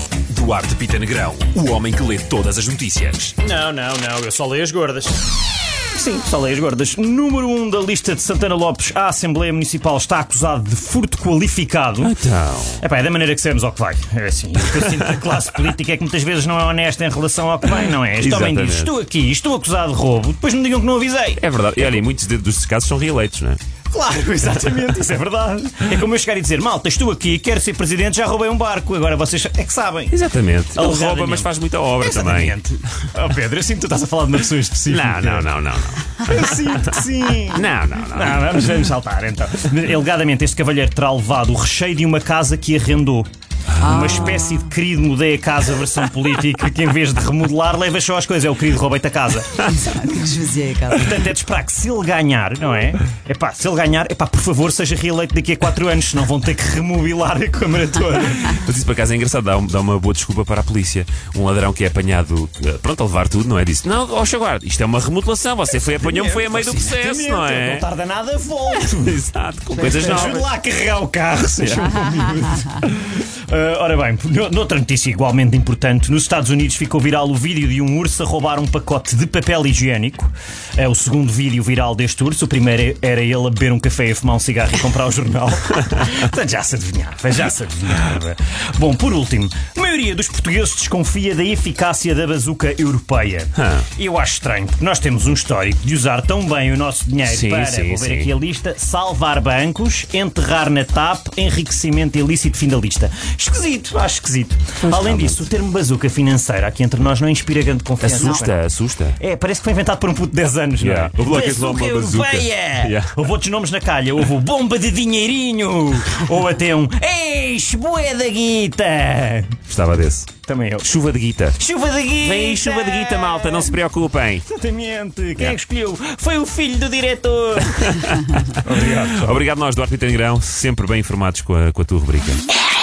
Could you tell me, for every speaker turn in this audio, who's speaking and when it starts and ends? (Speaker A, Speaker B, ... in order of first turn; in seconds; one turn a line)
Speaker A: 0.3-3.4
Speaker B: 3.4-5.2
Speaker B: 5.9-12.2
Speaker A: 12.0-12.8
Speaker B: 12.8-22.0
Speaker A: 18.2-18.9
Speaker A: 21.4-23.6
Speaker B: 23.9-30.2
Speaker A: 30.1-32.5
Speaker B: 30.7-35.5
Speaker A: 34.9-36.8
Speaker B: 36.2-43.3
Speaker A: 37.5-38.7
Speaker A: 43.8-44.3
Speaker B: 43.8-50.0
Speaker C: 43.9-44.5
Speaker C: 49.7-51.0
Speaker B: 50.9-58.6
Speaker A: 58.5-67.8
Speaker B: 65.8-69.2
Speaker A: 68.8-70.5
Speaker B: 69.7-108.6
Speaker A: 71.6-72.6
Speaker A: 93.6-93.8
Speaker A: 97.2-98.3
Speaker A: 104.8-105.4
Speaker A: 108.0-109.2
Speaker B: 109.2-119.6
Speaker A: 110.8-113.1
Speaker A: 119.7-120.3
Speaker B: 120.4-120.9
Speaker A: 120.8-121.6
Speaker B: 121.6-123.7
Speaker A: 122.2-124.5
Speaker B: 124.5-129.4
Speaker A: 127.8-132.5